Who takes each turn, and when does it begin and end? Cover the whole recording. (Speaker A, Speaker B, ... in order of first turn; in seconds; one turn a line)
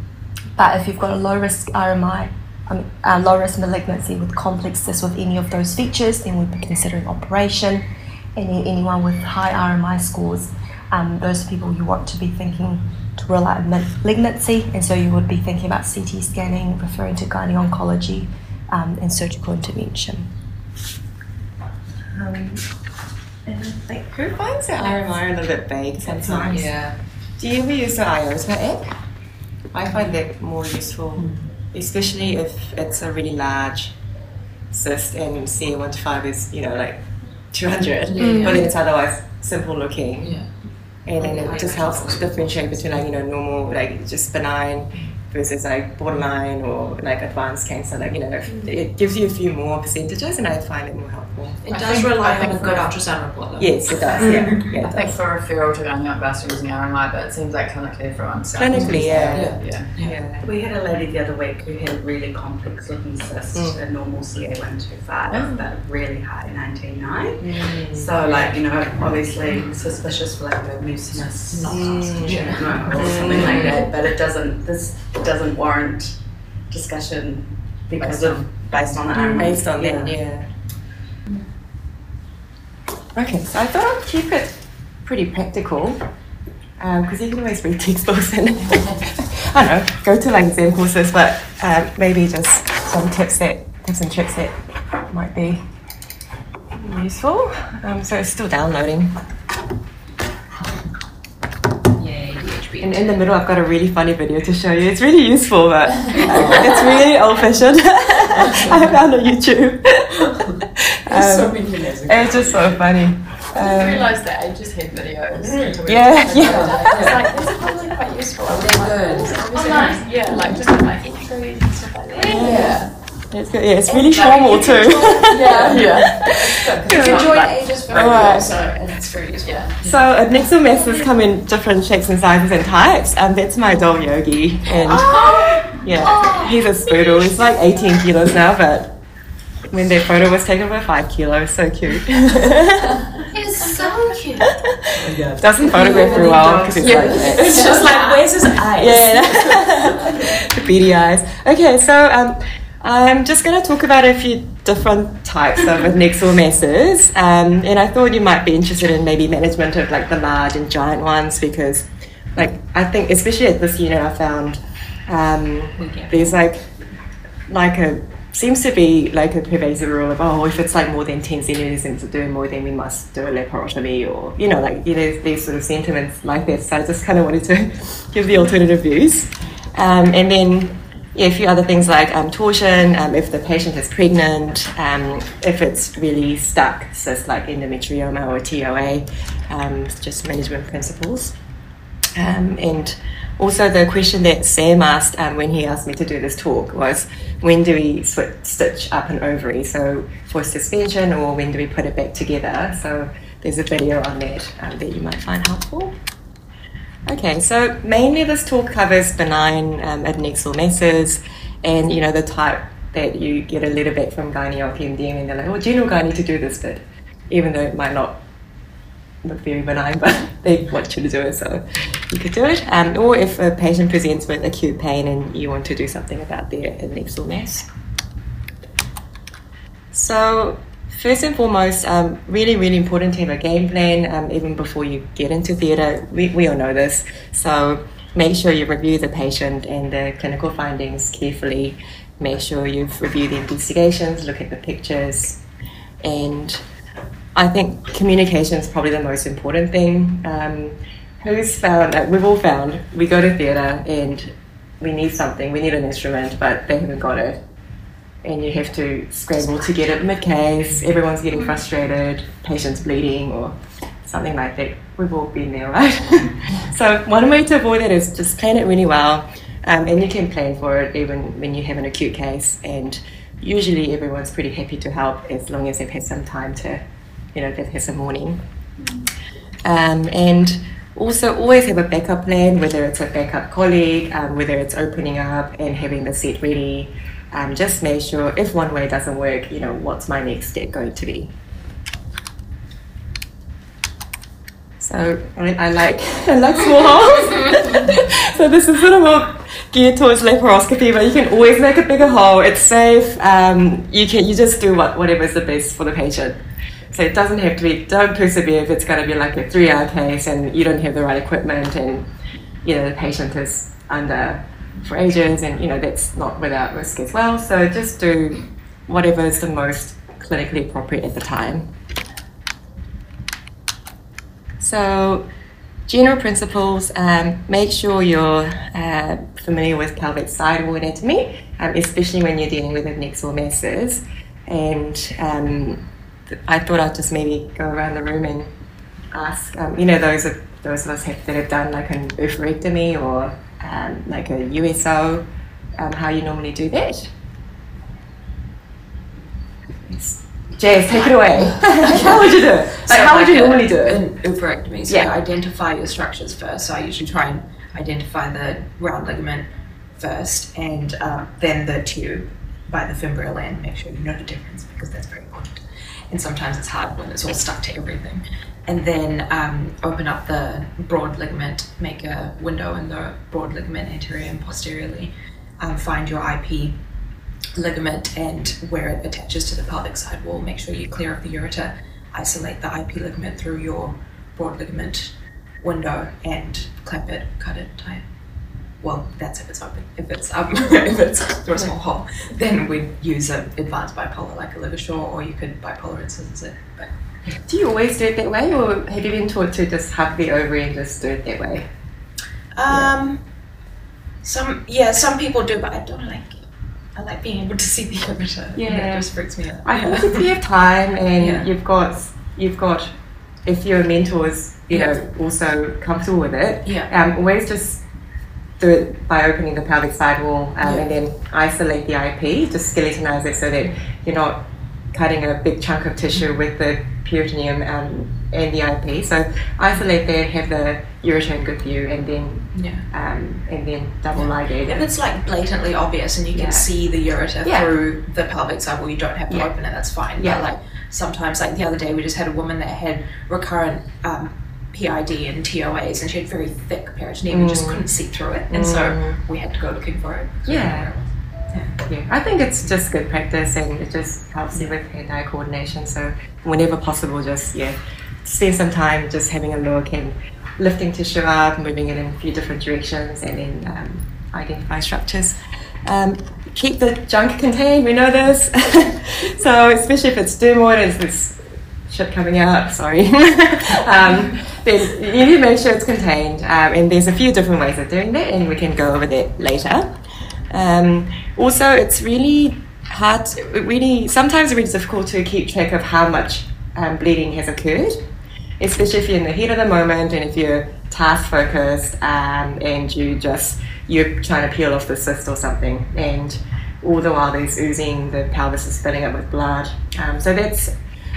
Speaker A: 0.6-20.3
Speaker B: 22.1-22.6
Speaker B: 23.5-26.7
Speaker C: 26.1-26.9
Speaker B: 27.4-28.9
Speaker B: 29.7-33.9
Speaker B: 34.7-40.4
Speaker C: 38.0-38.7
Speaker D: 38.2-38.6
Speaker B: 41.0-52.7
Speaker C: 41.3-42.1
Speaker C: 51.6-54.7
Speaker D: 51.8-52.1
Speaker E: 52.2-52.8
Speaker B: 53.6-55.2
Speaker D: 54.1-60.0
Speaker E: 54.2-54.6
Speaker B: 58.5-60.5
Speaker C: 58.7-60.1
Speaker E: 60.4-76.2
Speaker B: 63.5-63.8
Speaker B: 65.3-65.7
Speaker B: 67.4-68.2
Speaker C: 71.5-73.8
Speaker B: 71.7-73.8
Speaker D: 73.2-73.8
Speaker E: 76.7-80.2
Speaker D: 78.0-78.7
Speaker B: 79.1-80.5
Speaker B: 83.1-86.0
Speaker B: 86.8-94.5
Speaker B: 95.1-95.6
Speaker B: 96.8-99.2
Speaker C: 101.9-103.2
Speaker B: 102.8-114.2
Speaker C: 106.2-106.7
Speaker C: 108.5-108.8
Speaker C: 111.1-112.5
Speaker D: 112.3-112.7
Speaker D: 113.5-122.9
Speaker C: 115.4-115.8
Speaker B: 115.8-117.2
Speaker C: 116.4-117.3
Speaker C: 118.5-120.6
Speaker F: 119.5-120.1
Speaker F: 122.2-122.6
Speaker C: 122.2-122.9
Speaker B: 122.2-128.6
Speaker D: 124.0-128.8
Speaker C: 124.2-124.6
Speaker C: 125.2-129.9
Speaker D: 129.4-129.9
Speaker B: 129.8-138.9
Speaker F: 130.7-131.1
Speaker C: 134.8-135.4
Speaker D: 134.9-135.3
Speaker F: 134.9-137.1
Speaker B: 139.7-143.2
Speaker F: 143.3-144.5
Speaker C: 143.7-143.9
Speaker B: 144.4-147.9
Speaker C: 145.0-150.2
Speaker E: 145.2-147.6
Speaker D: 147.3-147.8
Speaker F: 147.3-148.2
Speaker B: 148.6-166.7
Speaker C: 165.8-166.4
Speaker B: 167.5-191.3
Speaker B: 192.2-205.9
Speaker B: 207.1-218.2
Speaker B: 219.2-227.7
Speaker B: 229.9-245.4
Speaker B: 246.0-246.6
Speaker B: 247.3-257.4
Speaker B: 258.2-276.8
Speaker B: 277.3-278.4
Speaker F: 278.8-279.0
Speaker B: 279.6-291.3
Speaker B: 294.8-306.4
Speaker B: 306.9-312.1
Speaker B: 312.6-321.7
Speaker B: 324.6-325.2
Speaker B: 325.9-338.5
Speaker B: 339.1-345.2
Speaker B: 345.8-347.1
Speaker B: 349.8-354.0
Speaker C: 351.0-359.4
Speaker B: 354.9-355.1
Speaker C: 360.0-365.6
Speaker C: 366.1-376.8
Speaker C: 377.6-388.0
Speaker C: 388.8-396.9
Speaker B: 397.5-401.7
Speaker C: 402.6-403.2
Speaker C: 404.2-410.3
Speaker B: 408.6-409.1
Speaker B: 409.6-412.9
Speaker C: 411.2-411.5
Speaker B: 413.4-417.8
Speaker C: 416.6-416.9
Speaker B: 418.6-434.9
Speaker C: 420.6-420.9
Speaker C: 432.5-432.9
Speaker C: 434.1-451.8
Speaker B: 436.3-436.7
Speaker B: 437.4-437.7
Speaker B: 440.2-440.4
Speaker B: 447.2-447.9
Speaker B: 448.5-449.2
Speaker B: 450.4-450.9
Speaker B: 451.8-479.9
Speaker B: 480.5-488.0
Speaker B: 488.6-500.7